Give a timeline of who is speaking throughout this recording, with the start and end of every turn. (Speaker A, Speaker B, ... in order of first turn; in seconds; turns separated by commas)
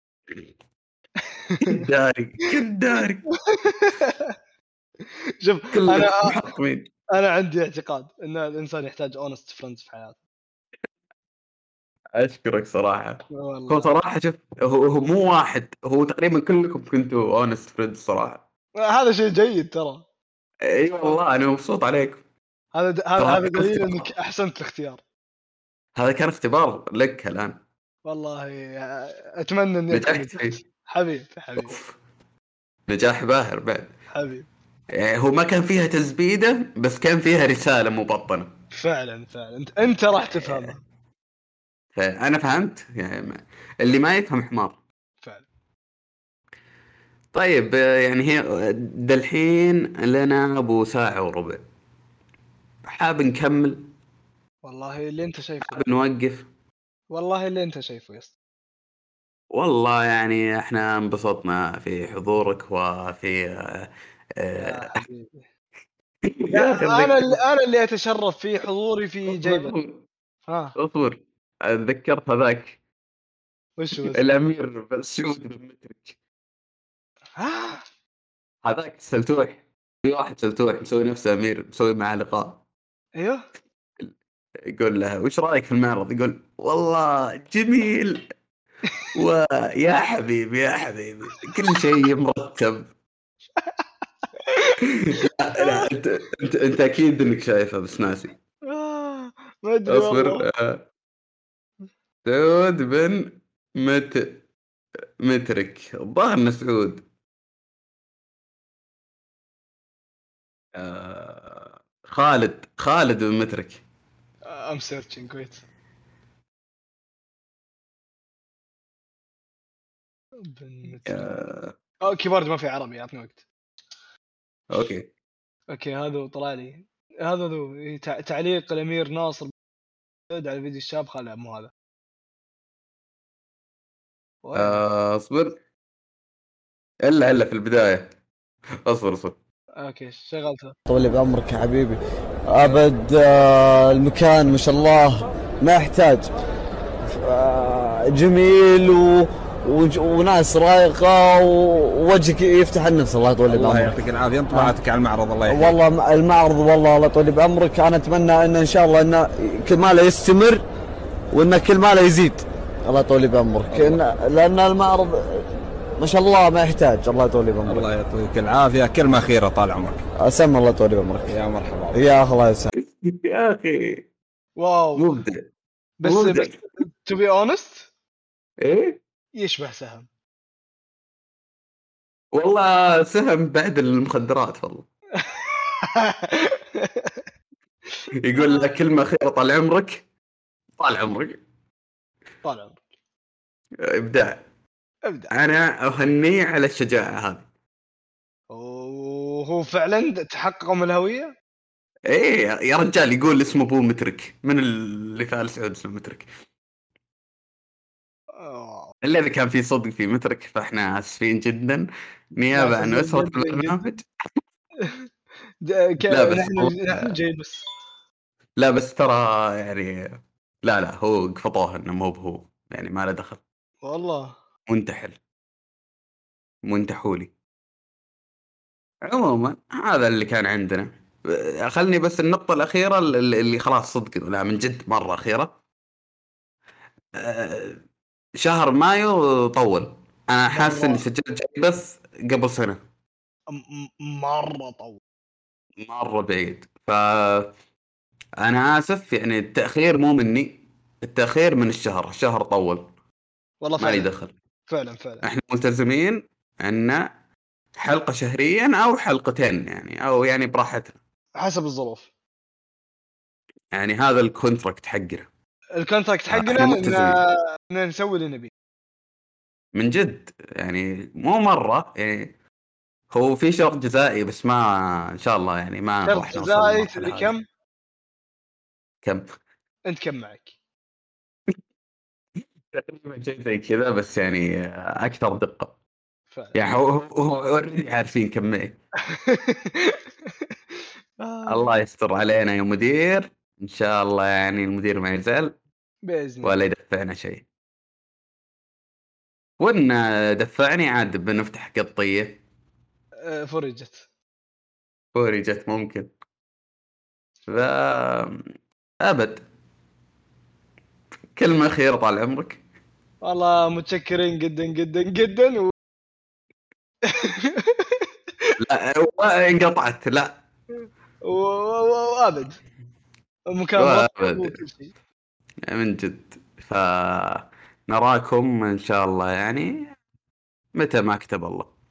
Speaker A: 1.3-1.9, Speaker B: 1.6-3.3, Speaker A: 3.5-4.3, Speaker A: 5.4-6.5, Speaker B: 5.7-6.9, Speaker A: 7.1-10.2, Speaker B: 12.1-18.4, Speaker A: 13.3-13.9, Speaker A: 18.8-20.0, Speaker B: 20.6-22.2, Speaker A: 22.7-25.0, Speaker B: 23.2-24.1, Speaker B: 25.9-27.6, Speaker A: 28.0-31.8, Speaker B: 29.9-30.6, Speaker B: 31.6-31.9, Speaker B: 32.9-33.9, Speaker A: 34.1-34.5, Speaker B: 34.9-38.5, Speaker A: 38.7-40.8, Speaker B: 40.3-40.7, Speaker B: 41.9-44.8, Speaker B: 47.3-51.6, Speaker B: 52.8-53.9, Speaker A: 54.6-55.9, Speaker B: 55.6-56.5, Speaker A: 57.1-58.4, Speaker B: 59.5-65.0, Speaker A: 64.6-65.5, Speaker B: 66.2-67.4, Speaker A: 66.5-69.7, Speaker B: 69.3-70.0, Speaker A: 70.5-70.8, Speaker B: 70.8-72.8, Speaker A: 73.8-74.2, Speaker B: 74.0-76.2, Speaker A: 77.4-77.8, Speaker B: 78.6-82.6, Speaker A: 83.2-83.4, Speaker B: 84.6-88.2, Speaker B: 89.1-92.9, Speaker A: 94.4-95.9, Speaker B: 94.8-98.4, Speaker A: 98.7-100.5, Speaker B: 99.8-100.8, Speaker B: 102.2-104.4, Speaker B: 105.2-107.0, Speaker B: 110.7-113.8, Speaker A: 114.5-115.6, Speaker A: 120.4-121.4, Speaker B: 121.0-121.7, Speaker A: 122.0-123.4, Speaker B: 124.7-125.1, Speaker A: 125.7-129.5, Speaker A: 130.3-131.7, Speaker A: 134.4-134.8, Speaker B: 134.5-135.6, Speaker B: 137.0-138.1, Speaker B: 138.8-139.4, Speaker A: 139.8-140.8, Speaker C: 140.9-146.3, Speaker C: 147.0-153.9, Speaker D: 153.5-155.8, Speaker C: 154.5-154.8, Speaker C: 155.5-160.6, Speaker C: 161.3-167.9, Speaker D: 163.7-164.0, Speaker D: 167.7-170.0, Speaker C: 170.2-171.3, Speaker D: 171.3-172.2, Speaker C: 171.9-172.7, Speaker B: 172.8-174.1, Speaker A: 174.6-175.2, Speaker B: 174.9-175.5, Speaker A: 176.0-177.9, Speaker B: 176.0-176.5, Speaker B: 178.6-179.0, Speaker A: 179.4-180.1, Speaker B: 182.3-184.9, Speaker A: 185.2-187.2, Speaker A: 188.0-188.7, Speaker B: 188.2-190.0, Speaker B: 190.8-191.4, Speaker A: 192.4-192.8, Speaker B: 193.8-194.4, Speaker A: 195.1-195.3, Speaker B: 195.3-197.5, Speaker A: 198.5-201.3, Speaker B: 202.1-206.3, Speaker A: 208.4-208.9, Speaker B: 209.0-214.1, Speaker A: 212.5-213.8, Speaker A: 215.6-217.6, Speaker B: 216.1-217.1, Speaker B: 218.6-223.4, Speaker A: 223.8-224.3, Speaker B: 224.7-225.2, Speaker B: 226.7-227.3, Speaker B: 229.0-235.5, Speaker B: 237.1-237.8, Speaker B: 238.3-242.8, Speaker A: 240.5-241.0, Speaker A: 243.5-245.0, Speaker B: 245.8-247.5, Speaker B: 248.4-252.9, Speaker A: 253.6-254.1, Speaker B: 253.8-254.3, Speaker A: 254.7-255.2, Speaker B: 255.2-257.0, Speaker B: 257.8-260.9, Speaker A: 261.4-262.1, Speaker B: 263.7-265.3, Speaker A: 265.8-268.5, Speaker B: 266.3-267.2, Speaker B: 269.7-272.3, Speaker B: 273.1-277.3, Speaker A: 276.1-277.4, Speaker A: 279.9-280.5, Speaker B: 282.7-285.7, Speaker A: 286.3-286.6, Speaker B: 286.5-288.8, Speaker A: 289.1-290.5, Speaker A: 291.2-291.8, Speaker B: 291.5-295.5, Speaker A: 296.1-296.6, Speaker B: 296.4-297.4, Speaker B: 299.6-302.4, Speaker A: 303.2-304.1, Speaker B: 305.1-306.1, Speaker B: 307.5-308.4, Speaker B: 309.0-309.4, Speaker B: 311.3-312.6, Speaker A: 313.2-315.7, Speaker A: 317.1-318.5, Speaker B: 318.6-320.4, Speaker A: 321.2-322.6, Speaker A: 323.5-324.9, Speaker B: 323.8-324.6, Speaker B: 325.6-329.9, Speaker B: 330.7-331.7